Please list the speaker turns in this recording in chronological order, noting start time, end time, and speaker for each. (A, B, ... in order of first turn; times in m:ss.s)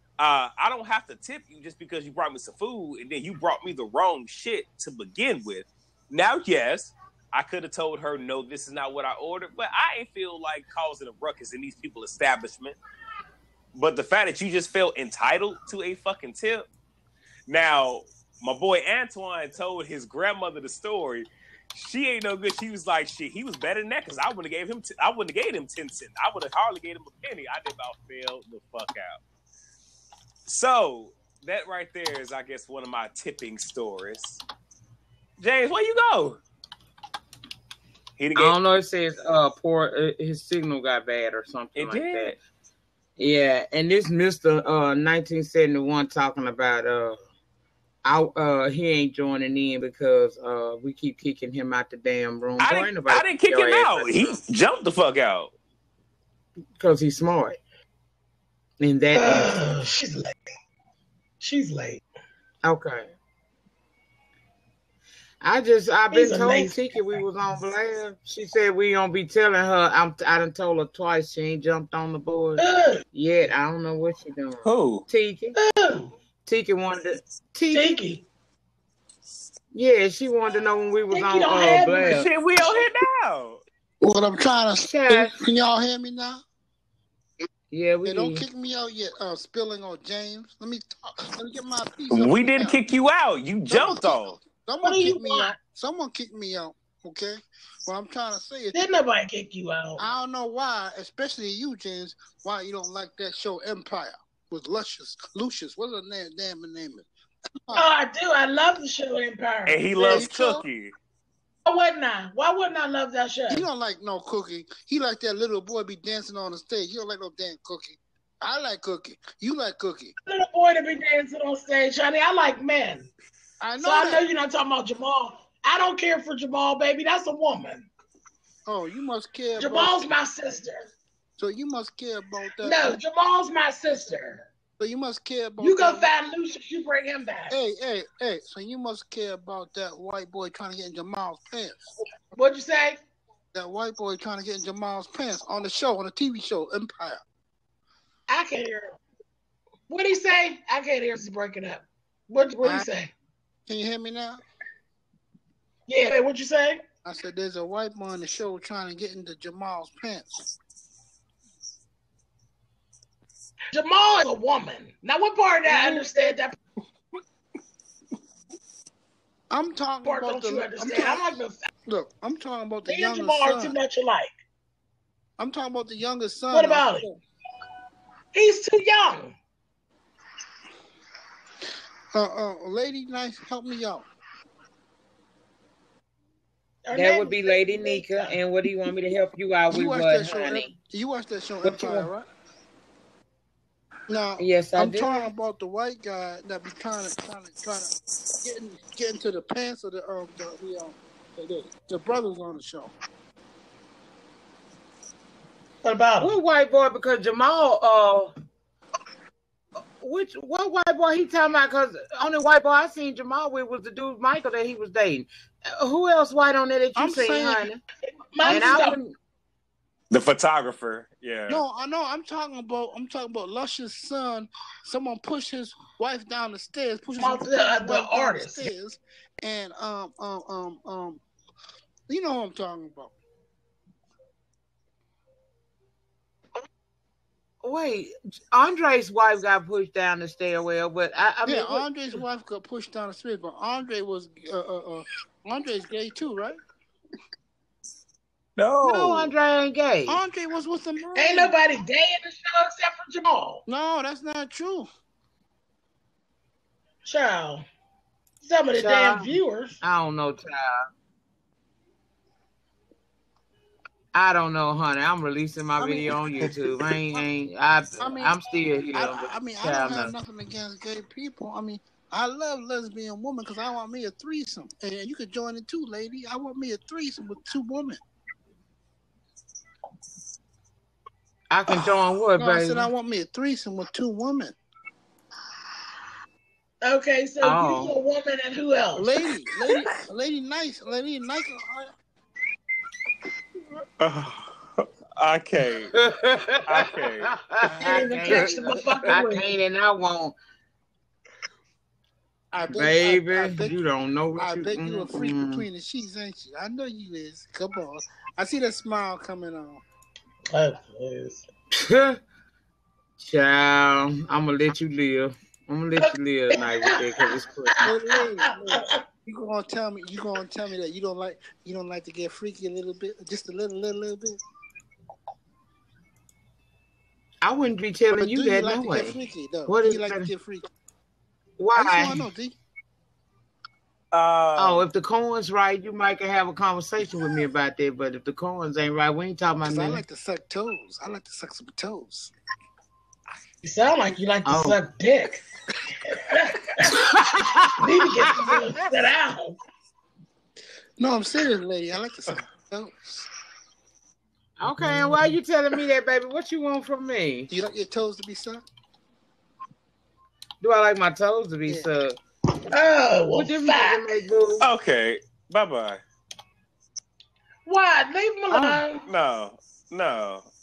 0:00.2-0:12.8 A
0:13.7-0:16.7 A
0:17.5-0:29.2 A
0:30.5-0:34.4 A
0:35.4-0:36.4 A
0:38.2-0:38.6 A
0:38.4-0:42.4 B
0:41.8-0:42.4 A
0:43.2-0:47.2 B
0:48.0-0:54.4 B
0:52.6-0:55.5 A
0:56.8-0:57.6 B
0:58.8-0:59.5 B
0:59.1-1:00.4 C
1:01.4-1:02.0 C
1:02.6-1:03.1 B
1:05.4-1:12.6 B
1:06.1-1:07.0 C
1:12.6-1:13.0 C
1:13.1-1:15.6 B
1:14.6-1:15.0 A
1:15.6-1:16.1 C
1:16.5-1:17.9 B
1:17.7-1:18.2 C
1:19.7-1:22.3 B
1:21.1-1:22.2 C
1:22.1-1:23.6 A
1:24.0-1:26.4 D
1:24.8-1:25.3 B
1:27.7-1:28.4 B
1:28.0-1:32.8 D
1:32.1-1:34.4 A
1:33.7-1:38.8 D
1:34.8-1:35.6 C
1:38.7-1:40.0 C
1:40.0-1:47.1 D
1:47.8-1:50.3 C
1:49.7-1:50.9 A
1:50.1-1:50.6 D
1:51.7-1:53.7 C
1:53.5-2:00.1 D
2:00.3-2:03.1 C
2:03.6-2:04.2 D
2:03.8-2:07.9 C
2:08.7-2:10.1 D
2:09.6-2:10.8 C
2:11.4-2:13.0 D
2:12.6-2:14.4 C
2:14.8-2:16.1 D
2:15.6-2:17.5 C
2:17.5-2:21.9 D
2:22.3-2:23.0 C
2:23.5-2:27.2 D
2:28.3-2:29.0 C
2:29.9-2:33.1 C
2:33.7-2:34.4 D
2:35.9-2:36.8 C
2:37.0-2:40.3 D
2:43.7-2:46.6 C
2:49.5-2:53.8 D
2:50.0-2:51.7 C
2:52.9-2:54.3 C
2:55.4-2:57.2 D
2:56.5-2:57.1 C
2:58.3-2:59.4 C
3:02.1-3:04.1 D
3:06.8-3:08.4 C
3:06.9-3:10.7 B
3:09.7-3:12.3 D
3:11.6-3:12.1 B
3:14.1-3:17.9 D
3:14.4-3:15.2 B
3:18.4-3:22.9 D
3:25.8-3:26.3 C
3:26.2-3:28.3 B
3:30.0-3:37.8 B
3:37.0-3:37.7 D
3:38.3-3:39.0 C
3:38.4-3:39.2 B
3:38.6-3:38.8 D
3:40.1-3:41.6 A
3:41.5-3:51.2 D
3:47.2-3:48.7 C
3:52.1-3:53.1 D
3:57.6-4:02.2 B
4:01.5-4:06.6 D
4:08.6-4:09.3 A
4:08.8-4:10.2 B
4:10.1-4:11.6 D
4:11.2-4:13.6 C
4:13.7-4:14.9 D
4:17.0-4:17.6 C
4:18.4-4:19.8 C
4:18.8-4:20.9 B
4:24.1-4:30.1 B
4:25.8-4:27.2 D
4:28.0-4:28.4 D
4:28.9-4:38.0 D
4:41.5-4:42.9 B
4:42.4-4:44.6 D
4:46.8-4:49.1 C
4:47.4-4:48.0 B
4:49.0-4:51.9 D
4:54.0-4:55.9 A
4:55.9-5:00.4 B
4:56.7-4:58.5 A
4:57.8-4:59.5 C
5:02.5-5:03.8 D
5:02.7-5:05.6 B
5:04.4-5:09.8 D
5:10.5-5:11.4 C
5:11.7-5:12.2 B
5:13.2-5:17.8 B
5:16.0-5:19.0 C
5:17.8-5:24.4 D
5:27.4-5:30.3 B
5:28.2-5:30.6 D
5:31.6-5:32.2 B
5:31.7-5:32.6 D
5:34.1-5:34.8 A
5:34.6-5:40.0 B
5:39.6-5:42.3 D
5:43.6-5:45.4 C
5:44.5-5:44.8 B
5:46.1-5:47.1 C
5:46.9-5:48.5 B
5:47.8-5:49.6 C
5:51.0-5:53.3 D
5:54.6-5:57.5 B
5:54.8-5:55.2 D
5:57.5-5:58.6 D
6:00.6-6:02.2 B
6:02.7-6:04.2 C
6:03.3-6:04.7 B
6:04.6-6:06.0 A
6:07.7-6:09.0 C
6:08.5-6:08.8 B
6:09.1-6:10.4 A